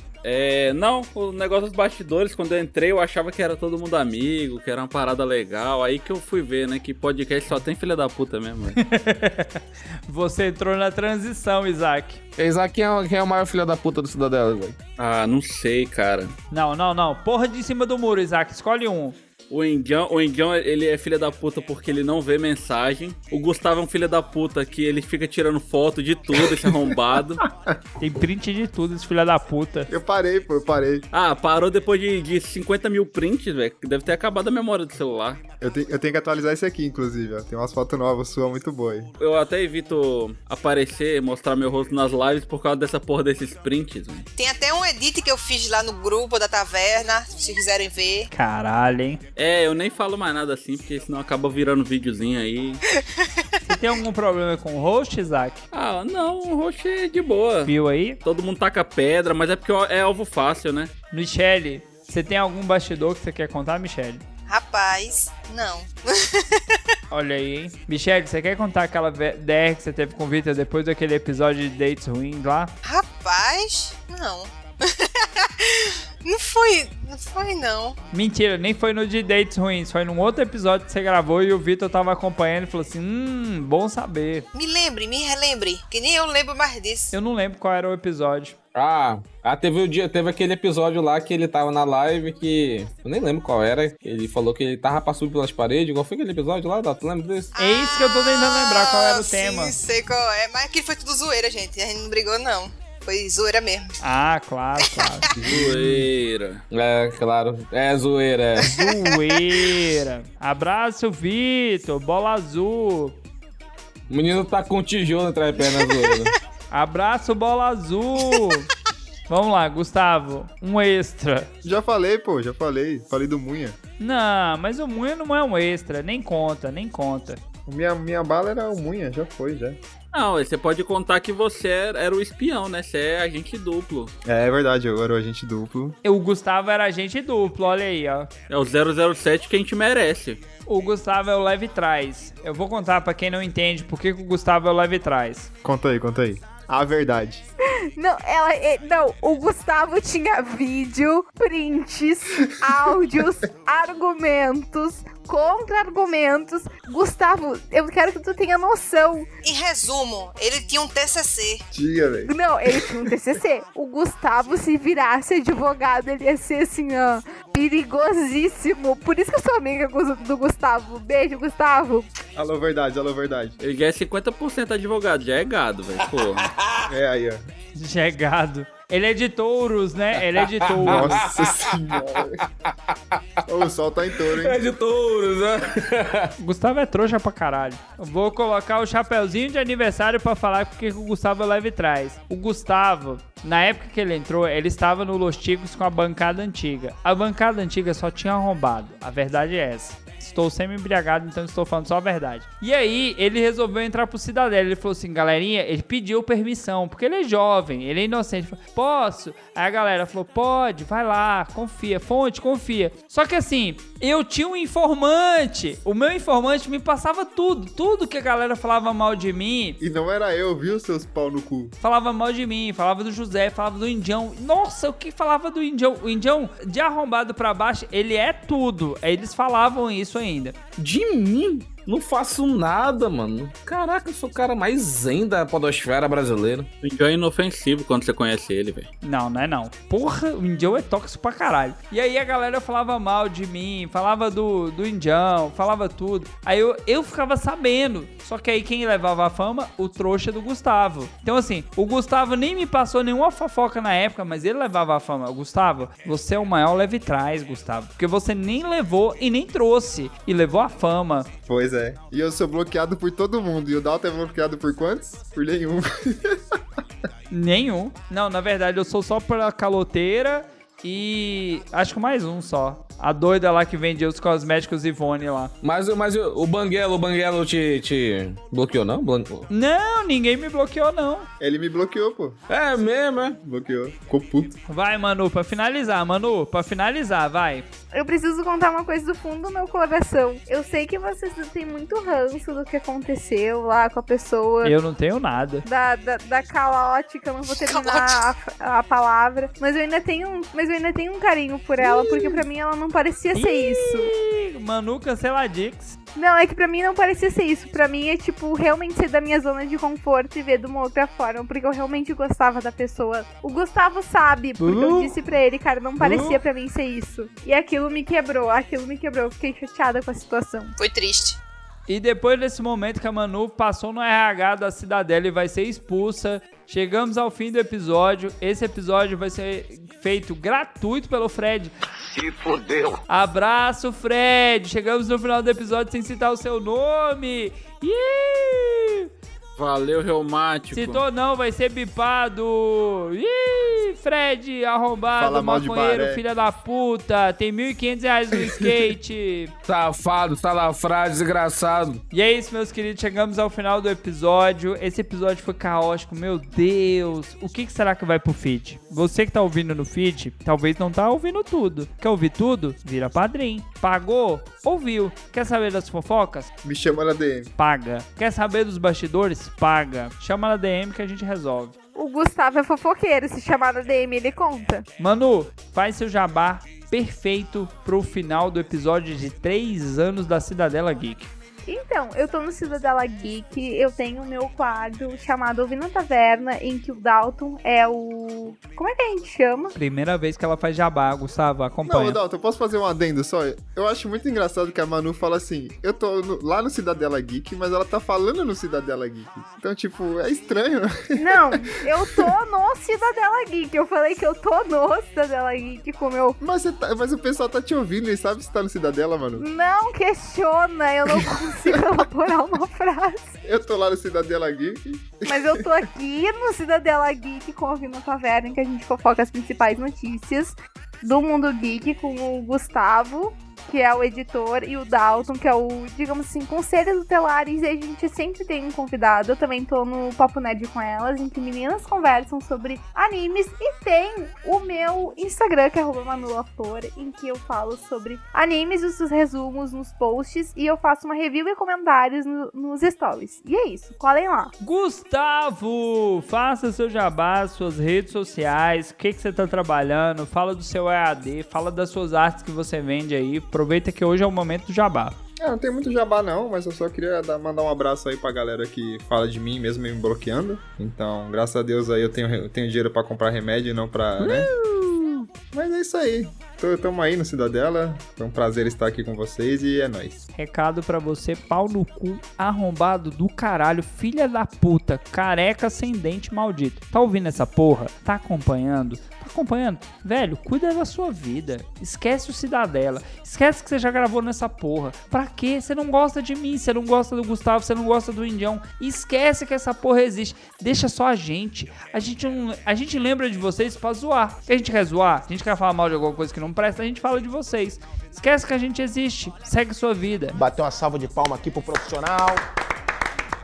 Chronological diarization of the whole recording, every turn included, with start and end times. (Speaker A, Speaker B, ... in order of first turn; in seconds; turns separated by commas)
Speaker A: 0.2-8.8, Speaker B: 8.8-12.2, Speaker C: 12.4-14.8, Speaker A: 15.0-16.4, Speaker B: 16.5-19.2, Speaker A: 19.5-27.4, Speaker B: 28.0-29.9, Speaker D: 29.9-31.0, Speaker A: 31.1-35.4, Speaker D: 35.6-39.1, Speaker A: 39.2-44.3, Speaker E: 44.4-48.3, Speaker B: 48.3-49.2, Speaker A: 49.4-52.8, Speaker B: 53.7-55.6, Speaker A: 55.7-57.7, Speaker B: 57.7-58.2, Speaker A: 58.2-60.9, Speaker B: 61.1-64.2, Speaker E: 64.5-66.8, Speaker B: 67.1-72.7, Speaker E: 72.8-78.0, Speaker B: 78.1-84.5, Speaker E: 84.5-87.1, Speaker B: 87.1-88.5, Speaker C: 88.8-97.5, Speaker E: 97.6-104.0, Speaker B: 97.6-99.7, Speaker B: 104.0-105.3, Speaker A: 105.4-106.6, Speaker C: 105.5-106.0, Speaker C: 106.7-108.7, Speaker B: 108.6-113.2, Speaker C: 114.1-116.3, Speaker B: 116.7-118.7, Speaker B: 119.3-121.5, Speaker D: 121.6-123.8, Speaker B: 124.0-127.4, Speaker D: 127.7-129.8, Speaker A: 130.1-134.1, Speaker D: 134.2-136.0, Speaker B: 136.0-138.3, Speaker A: 138.5-140.4, Speaker B: 140.7-145.5, Speaker D: 145.6-147.4, Speaker F: 147.9-159.3, Speaker E: 159.4-161.6, Speaker D: 161.7-163.0, Speaker F: 162.3-172.1, Speaker D: 172.3-173.6, Speaker A: 173.6-176.5, Speaker C: 176.4-176.7, Speaker D: 176.9-177.4, Speaker B: 177.8-181.1, Speaker C: 180.7-181.7, Speaker D: 180.8-182.4, Speaker C: 182.7-183.2, Speaker D: 183.5-184.6, Speaker C: 184.2-186.3, Speaker B: 186.4-219.8, Speaker D: 219.8-221.8, Speaker B: 221.8-230.7, Speaker C: 230.8-236.7, Speaker A: 236.8-238.9, Speaker B: 239.0-261.3, Speaker D: 261.5-266.6, Speaker B: 267.3-275.5, Speaker C: 275.6-279.5, Speaker B: 279.5-281.3, Speaker D: 281.4-282.4, Speaker C: 282.5-283.4, Speaker D: 283.4-284.6, Speaker B: 284.7-287.7, Speaker F: 287.9-294.8, Speaker B: 294.6-295.6, Speaker F: 295.6-304.1, Speaker E: 297.5-298.2, Speaker B: 301.8-302.4, Speaker B: 303.3-306.0, Speaker F: 306.2-320.7, Speaker B: 314.6-315.1, Speaker B: 316.0-316.4, Speaker E: 320.8-321.4, Speaker B: 321.9-331.8, Speaker G: 332.2-332.9, Speaker B: 333.1-339.1, Speaker A: 339.6-341.0, Speaker B: 340.7-349.5, Speaker D: 345.2-346.2, Speaker C: 349.7-352.0, Speaker B: 352.1-366.5, Speaker D: 366.6-367.5, Speaker B: 367.6-371.8, Speaker F: 371.9-374.9, Speaker B: 375.0-381.3, Speaker F: 381.7-389.7, Speaker B: 389.8-392.2, Speaker D: 391.9-402.3, Speaker F: 401.2-406.4, Speaker D: 406.4-409.5, Speaker F: 409.4-413.4, Speaker D: 411.1-412.0, Speaker D: 413.4-415.7, Speaker F: 415.3-444.5, Speaker B: 444.6-455.2, Speaker D: 455.4-464.5, Speaker D: 465.5-470.2, Speaker B: 470.4-500.4, Speaker G: 500.4-502.4